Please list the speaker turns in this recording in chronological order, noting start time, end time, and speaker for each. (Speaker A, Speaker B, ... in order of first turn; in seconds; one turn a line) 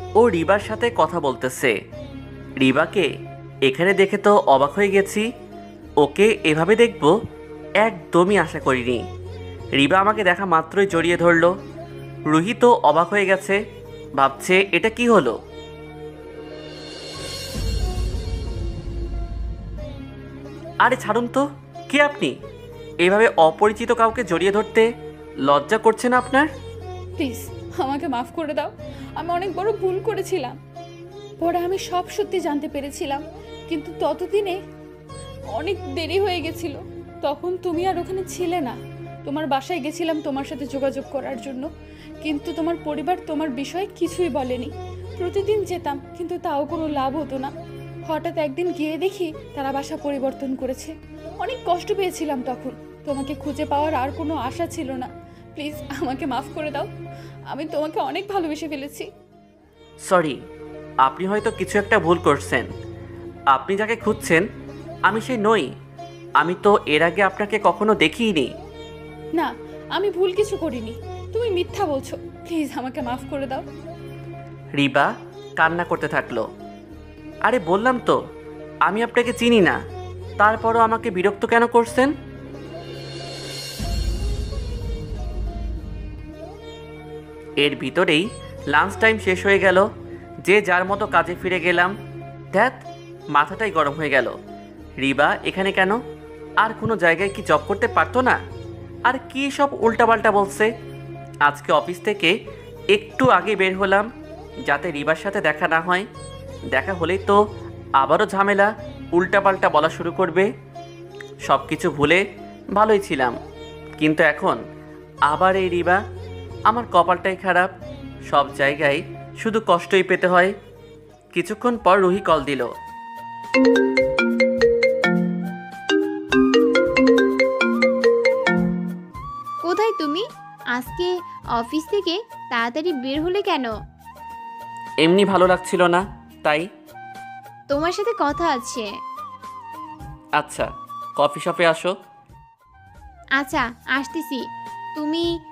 Speaker A: 0.2-1.7
Speaker A: 2.6-3.1
Speaker A: 3.6-5.2
Speaker A: 6.0-7.1
Speaker A: 7.8-9.0
Speaker A: 9.8-11.5
Speaker A: 12.3-13.6
Speaker A: 14.2-15.3
Speaker A: 20.8-22.3
Speaker A: 23.0-24.9
Speaker A: 25.5-26.5
Speaker B: 27.2-30.6
Speaker B: 31.4-34.6
Speaker B: 35.5-41.7
Speaker B: 42.2-47.5
Speaker B: 48.1-56.9
Speaker B: 57.5-59.1
Speaker A: 60.0-60.4
Speaker A: 61.0-62.7
Speaker A: 63.5-64.4
Speaker A: 65.1-65.7
Speaker A: 66.4-68.5
Speaker B: 69.3-73.7
Speaker A: 74.7-76.5
Speaker A: 77.4-78.2
Speaker A: 78.8-79.8
Speaker A: 80.4-82.1
Speaker A: 87.6-89.8
Speaker A: 90.5-91.9
Speaker A: 92.5-92.8
Speaker A: 93.3-94.3
Speaker A: 95.0-96.0
Speaker A: 96.6-98.4
Speaker A: 99.1-100.7
Speaker A: 101.4-102.3
Speaker A: 102.9-104.1
Speaker A: 104.7-106.0
Speaker A: 106.7-107.4
Speaker A: 108.0-110.5
Speaker A: 111.5-112.2
Speaker A: 112.7-113.3
Speaker A: 114.0-114.6
Speaker A: 115.3-116.0
Speaker A: 116.7-117.7
Speaker A: 118.3-120.5
Speaker A: 121.3-122.7
Speaker C: 129.6-133.7
Speaker A: 135.0-136.7
Speaker C: 137.7-138.9
Speaker A: 140.4-141.9
Speaker C: 143.4-144.4
Speaker C: 144.9-145.3